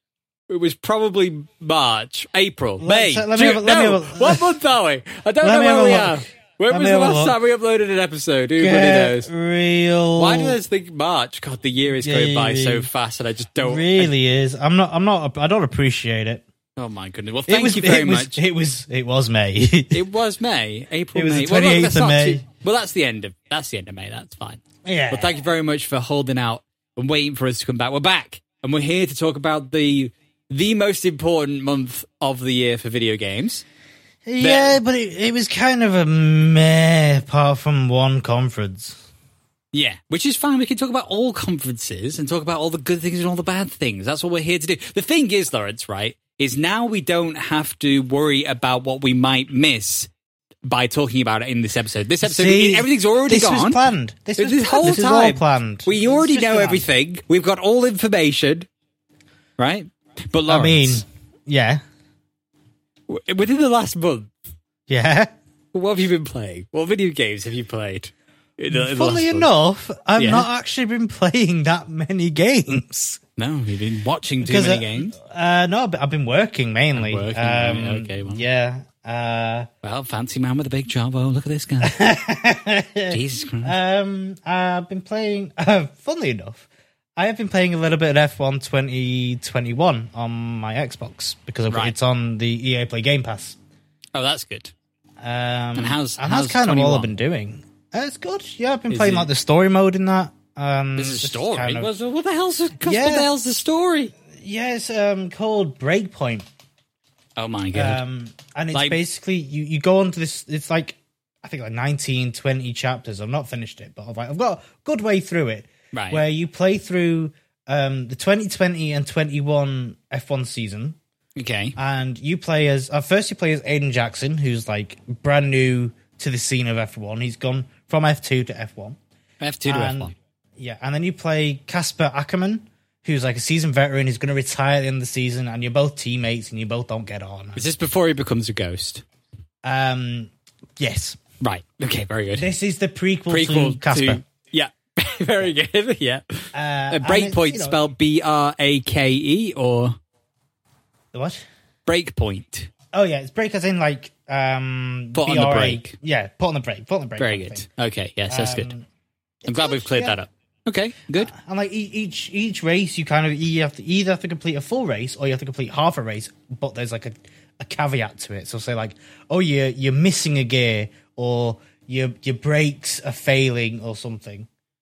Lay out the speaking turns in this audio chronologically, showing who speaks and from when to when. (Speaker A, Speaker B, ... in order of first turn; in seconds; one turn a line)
Speaker A: 0.5-9.3
Speaker B: 2.8-4.6
Speaker B: 5.4-7.4
Speaker B: 8.6-10.6
Speaker A: 10.2-14.1
Speaker B: 12.0-12.9
Speaker B: 13.6-16.4
Speaker A: 16.8-18.4
Speaker B: 17.5-20.0
Speaker A: 19.9-33.6
Speaker B: 21.1-22.4
Speaker B: 24.9-25.3
Speaker B: 34.2-39.1
Speaker A: 34.4-34.8
Speaker A: 39.7-50.1
Speaker A: 50.6-53.8
Speaker B: 52.2-56.8
Speaker A: 54.4-58.7
Speaker A: 59.6-61.0
Speaker B: 60.5-61.8
Speaker A: 63.1-64.3
Speaker B: 64.9-65.3
Speaker A: 65.7-69.5
Speaker B: 68.7-73.2
Speaker A: 70.2-70.5
Speaker A: 73.4-75.2
Speaker B: 74.4-79.7
Speaker A: 77.0-78.5
Speaker A: 79.8-82.0
Speaker B: 81.8-93.6
Speaker A: 83.1-83.8
Speaker A: 91.7-92.0
Speaker A: 94.2-94.7
Speaker B: 95.2-101.9
Speaker A: 95.8-97.1
Speaker A: 98.9-99.3
Speaker A: 101.0-104.1
Speaker B: 102.8-103.3
Speaker B: 104.3-106.5
Speaker A: 107.4-108.0
Speaker B: 107.7-121.0
Speaker A: 108.7-109.0
Speaker A: 115.9-116.2
Speaker A: 121.4-121.8
Speaker B: 121.8-129.0
Speaker A: 129.4-130.1
Speaker B: 129.7-137.7
Speaker A: 137.6-139.0
Speaker B: 139.6-141.2
Speaker A: 141.4-142.5
Speaker B: 142.4-144.2
Speaker A: 143.3-150.0
Speaker B: 146.5-147.8
Speaker B: 151.1-151.4
Speaker A: 151.9-152.7
Speaker B: 152.9-157.7
Speaker A: 155.2-155.9
Speaker A: 157.2-158.7
Speaker B: 158.3-158.8
Speaker B: 159.5-160.2
Speaker A: 159.5-161.3
Speaker B: 161.2-174.5